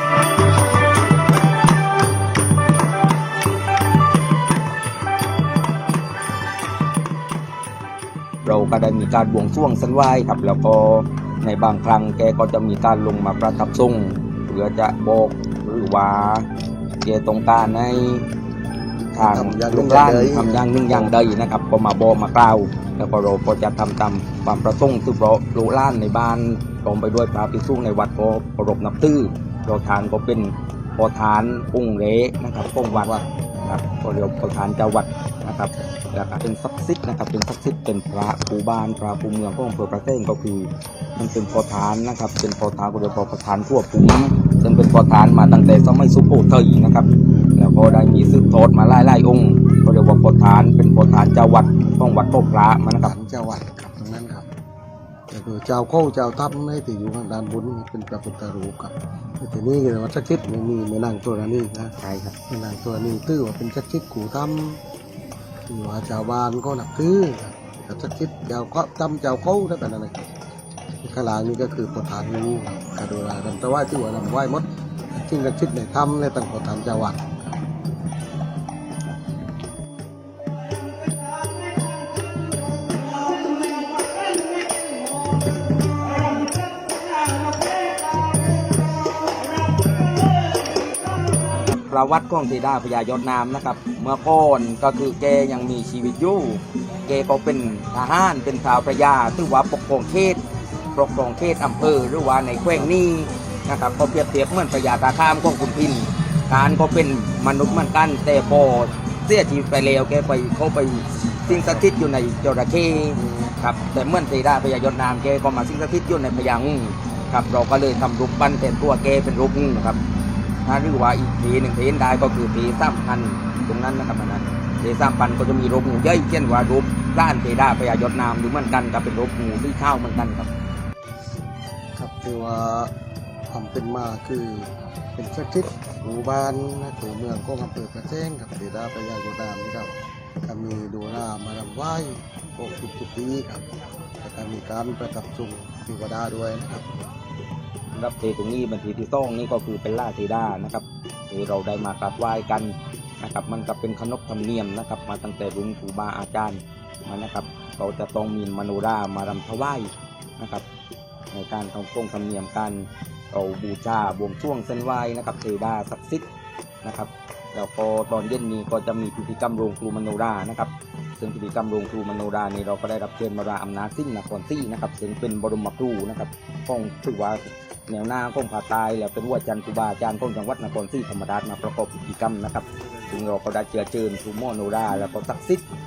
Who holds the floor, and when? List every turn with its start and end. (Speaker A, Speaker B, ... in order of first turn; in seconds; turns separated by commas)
Speaker A: 8.4-16.5, Speaker A: 17.0-18.3, Speaker A: 19.1-53.1, Speaker B: 19.1-21.1, Speaker B: 32.9-33.2, Speaker B: 53.0-54.5, Speaker B: 55.3-61.9, Speaker A: 62.0-62.3, Speaker B: 62.5-64.8, Speaker B: 65.7-70.2, Speaker B: 71.0-77.2, Speaker A: 91.9-100.4, Speaker A: 100.9-120.0, Speaker B: 111.4-111.8, Speaker B: 113.1-113.5, Speaker A: 120.6-130.5, Speaker B: 131.9-132.9, Speaker B: 133.5-143.6, Speaker B: 144.2-146.8, Speaker A: 147.9-160.6, Speaker A: 161.3-166.3, Speaker A: 166.8-185.6